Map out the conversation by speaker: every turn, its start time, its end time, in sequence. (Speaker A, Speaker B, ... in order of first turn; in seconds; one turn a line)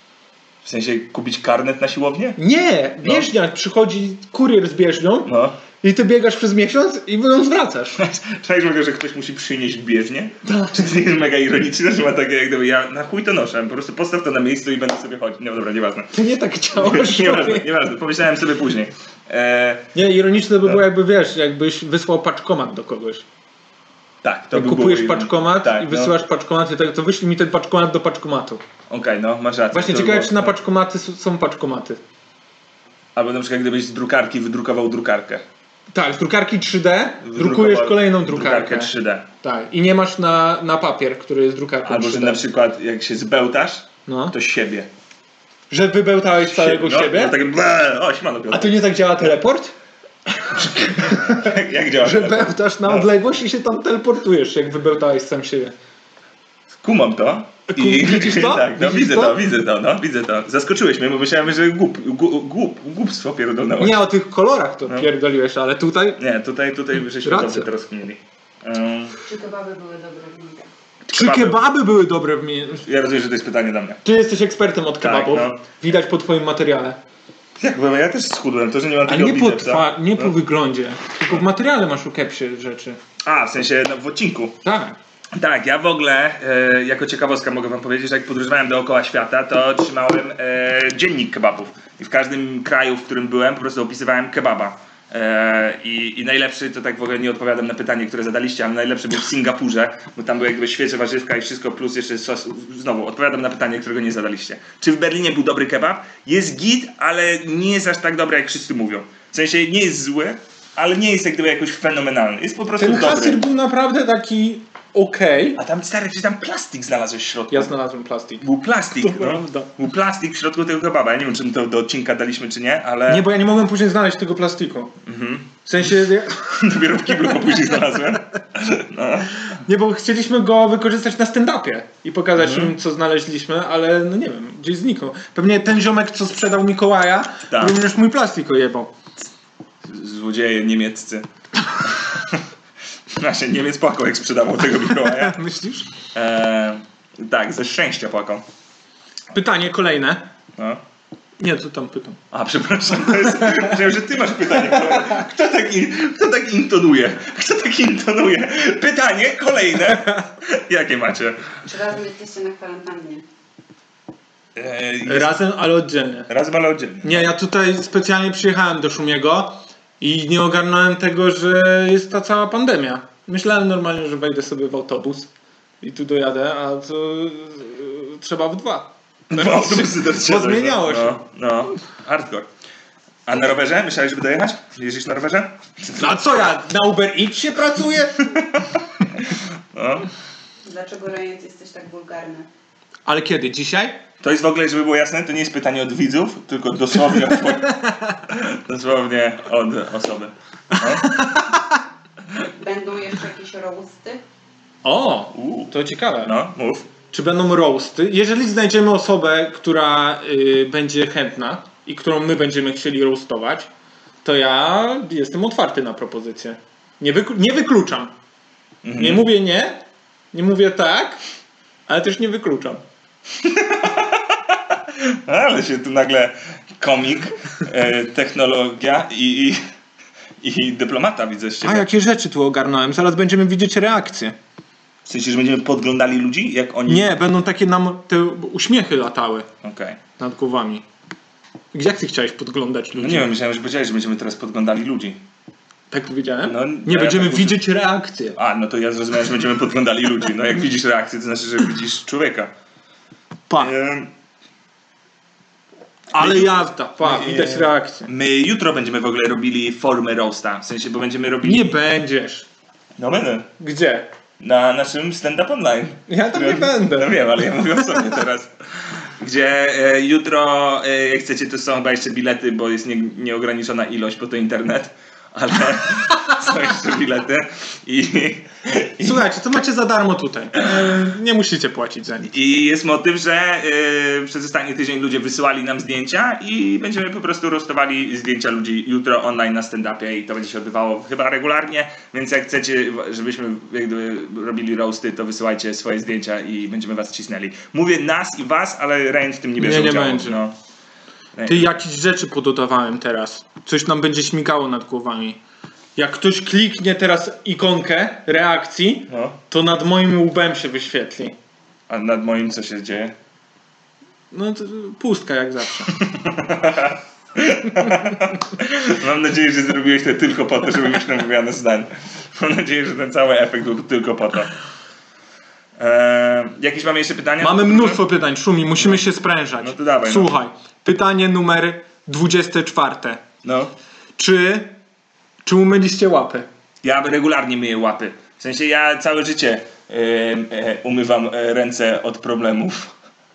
Speaker A: 0.6-2.4
Speaker B: 2.4-8.0
Speaker A: 3.0-3.3
Speaker A: 5.2-5.6
Speaker A: 8.0-16.1
Speaker B: 10.4-10.8
Speaker B: 16.1-17.7
Speaker A: 16.8-19.9
Speaker B: 19.9-23.2
Speaker A: 24.2-26.1
Speaker B: 24.5-28.6
Speaker A: 28.9-30.6
Speaker B: 29.7-32.0
Speaker A: 33.1-35.4
Speaker B: 35.9-42.4
Speaker A: 37.2-39.3
Speaker A: 41.8-44.9
Speaker B: 44.0-44.3
Speaker B: 45.7-47.4
Speaker A: 46.4-48.8
Speaker B: 48.5-49.7
Speaker B: 50.3-55.7
Speaker A: 50.5-53.1
Speaker A: 56.8-64.0
Speaker B: 57.7-59.4
Speaker B: 63.8-66.2
Speaker A: 66.2-69.2
Speaker B: 67.2-67.7
Speaker C: 69.2-70.7
Speaker A: 71.1-71.6
Speaker B: 71.1-72.8
Speaker A: 72.8-74.0
Speaker B: 74.0-77.0
Speaker A: 75.0-75.6
Speaker A: 77.6-80.3
Speaker B: 79.0-83.0
Speaker A: 83.2-84.6
Speaker B: 84.6-85.0
Speaker A: 85.3-113.4
Speaker B: 112.8-115.6
Speaker A: 115.6-117.7
Speaker B: 117.5-119.7
Speaker A: 118.4-123.3
Speaker B: 123.1-124.9
Speaker A: 125.0-125.5
Speaker B: 125.6-126.7
Speaker A: 126.5-129.4
Speaker B: 129.5-138.9
Speaker A: 132.3-132.7
Speaker A: 137.5-137.8
Speaker A: 139.8-141.3
Speaker A: 141.8-142.4
Speaker A: 143.1-145.4
Speaker B: 145.0-145.8
Speaker A: 146.1-148.4
Speaker B: 149.3-150.3
Speaker A: 150.6-150.8
Speaker B: 151.4-152.2
Speaker A: 152.3-161.5
Speaker B: 153.3-153.7
Speaker C: 161.7-163.2
Speaker A: 164.5-165.4
Speaker B: 165.0-166.3
Speaker A: 166.3-167.3
Speaker B: 167.0-175.3
Speaker B: 175.8-181.2
Speaker A: 179.3-182.5
Speaker A: 183.2-186.2
Speaker B: 185.9-188.3
Speaker A: 188.3-190.1
Speaker C: 190.6-192.5
Speaker B: 193.1-194.0
Speaker A: 194.2-201.2
Speaker B: 197.6-198.0
Speaker B: 200.9-201.6
Speaker C: 202.6-204.2
Speaker B: 204.8-206.3
Speaker A: 205.3-206.9
Speaker B: 207.1-213.7
Speaker B: 214.2-218.1
Speaker A: 218.8-219.3
Speaker B: 218.9-221.2
Speaker B: 221.9-222.8
Speaker A: 223.4-229.6
Speaker A: 230.4-231.9
Speaker B: 231.6-234.3
Speaker A: 235.0-237.1
Speaker B: 236.9-239.5
Speaker A: 239.6-240.0
Speaker B: 240.2-240.8
Speaker B: 241.7-243.3
Speaker A: 242.9-245.2
Speaker B: 245.9-248.4
Speaker A: 246.4-247.6
Speaker A: 248.3-252.5
Speaker A: 253.6-254.1
Speaker B: 256.1-258.1
Speaker A: 256.1-261.8
Speaker B: 261.4-262.4
Speaker A: 263.0-263.5
Speaker B: 263.6-264.1
Speaker A: 264.4-279.2
Speaker B: 266.1-267.2
Speaker B: 279.0-282.3
Speaker A: 282.3-300.5
Speaker B: 299.6-300.4
Speaker A: 301.3-301.7
Speaker B: 301.4-305.4
Speaker B: 305.9-311.4
Speaker A: 309.1-309.4
Speaker A: 311.9-313.1
Speaker B: 314.3-315.9
Speaker A: 315.9-324.5
Speaker A: 325.8-328.0
Speaker B: 327.4-333.2
Speaker A: 329.6-330.4
Speaker A: 333.4-333.7
Speaker B: 334.2-334.8
Speaker B: 335.4-336.5
Speaker A: 336.8-342.9